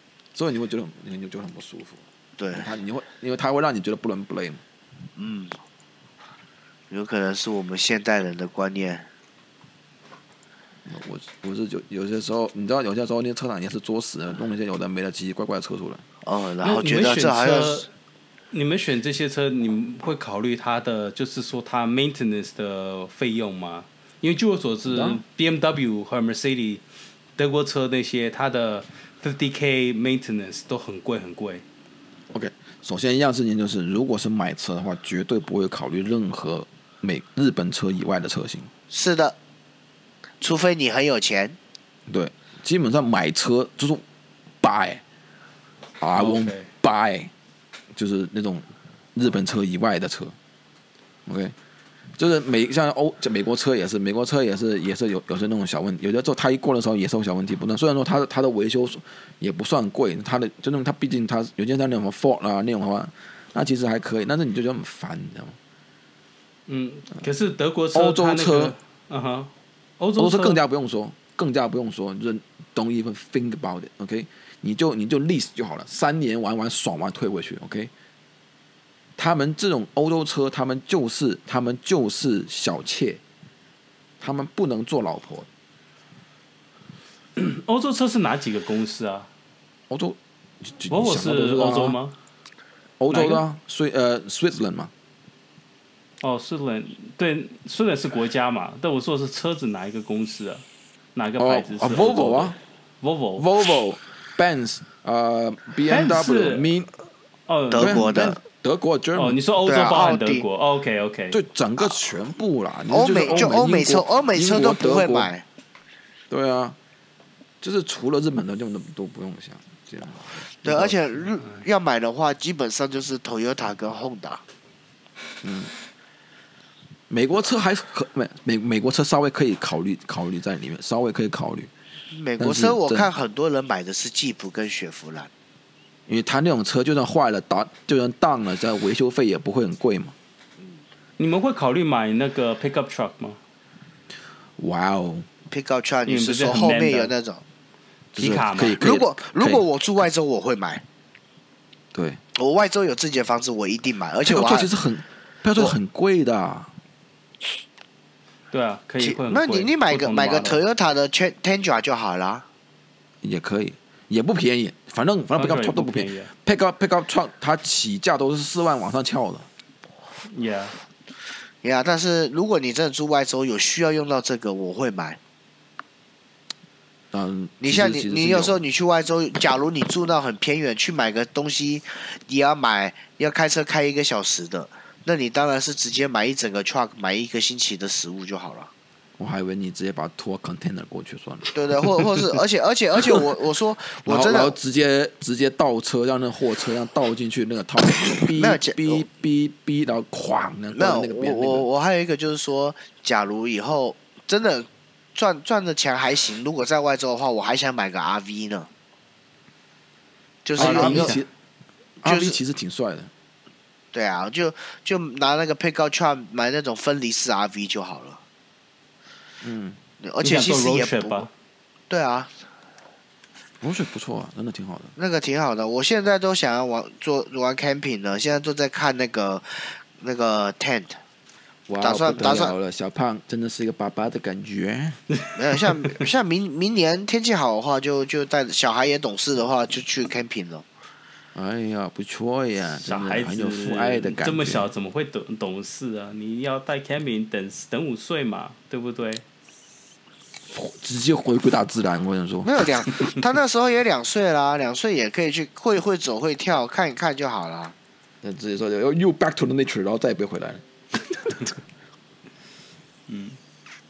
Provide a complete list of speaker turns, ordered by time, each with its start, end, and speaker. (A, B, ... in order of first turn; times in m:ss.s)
0:00.3-0:04.6 A
0:02.4-0:02.7 B
0:05.2-0:05.6 B
0:06.9-0:09.1 B
0:10.8-0:16.0 A
0:16.2-0:17.9 B
0:16.6-0:17.9 C
0:18.5-0:26.8 C
0:24.8-0:25.2 A
0:27.4-0:31.6 C
0:32.3-0:38.7 A
0:38.9-0:39.4 B
0:40.4-0:41.6 B
0:42.1-0:44.0 A
0:44.6-0:45.0 A
0:46.0-0:47.3 A
0:46.2-0:46.7 C
0:47.9-0:50.4 A
0:51.2-0:51.5 A
0:52.2-1:05.6 A
1:06.7-1:10.6 C
1:07.9-1:08.7 A
1:10.2-1:17.9 A
1:19.2-1:23.2 A
1:24.2-1:25.5 A
1:27.4-1:29.3 C
1:29.9-1:32.0 A
1:30.9-1:32.1 C
1:33.0-1:34.9 A
1:33.1-1:33.4 C
1:36.2-1:40.6 C
1:41.1-1:43.5 C
1:41.4-1:42.6 A
1:43.4-1:46.9 A
1:45.9-1:46.6 C
1:47.5-1:48.1 C
1:47.7-1:48.4 B
1:47.8-1:49.4 A
1:49.1-1:51.4 C
1:49.6-1:50.5 B
1:51.3-1:55.3 A
1:52.9-1:55.4 B
1:56.3-1:56.8 A
1:57.6-2:01.0 A
2:00.6-2:04.4 B
2:05.4-2:05.7 A
2:07.1-2:11.7 A
2:12.1-2:15.3 B
2:12.4-2:13.1 A
2:16.1-2:20.1 A
2:21.2-2:23.4 C
2:24.6-2:25.2 A
2:25.5-2:27.4 B
2:26.1-2:27.1 C
2:28.1-2:29.6 A
2:28.2-2:28.8 C
2:28.8-2:30.8 B
2:31.9-2:32.2 A
2:32.3-2:34.7 B
2:34.2-2:36.7 A
2:38.5-2:40.6 C
2:39.0-2:42.4 B
2:43.2-2:49.5 A
2:45.4-2:46.3 C
2:50.3-2:50.8 C
2:51.6-2:55.2 B
2:57.1-2:58.6 A
2:57.6-3:08.7 B
3:09.2-3:12.3 A
3:11.5-3:14.6 B
3:14.0-3:21.7 A
3:18.2-3:19.0 B
3:20.7-3:28.7 B
3:30.4-3:31.2 B
3:30.6-3:31.2 C
3:30.6-3:31.3 A
3:32.0-3:33.1 A
3:32.0-3:32.4 B
3:33.9-3:38.2 B
3:39.4-3:39.8 A
3:40.0-3:41.3 B
3:40.2-3:41.3 C
3:41.9-3:42.3 B
3:43.6-3:44.9 A
3:45.0-3:51.0 B
3:51.7-3:55.0 A
3:51.8-3:52.5 B
3:55.3-4:00.6 B
4:01.3-4:04.7 A
4:02.8-4:09.2 C
4:10.5-4:12.6 A
4:12.4-4:17.7 B
4:18.2-4:21.5 A
4:23.1-4:23.4 C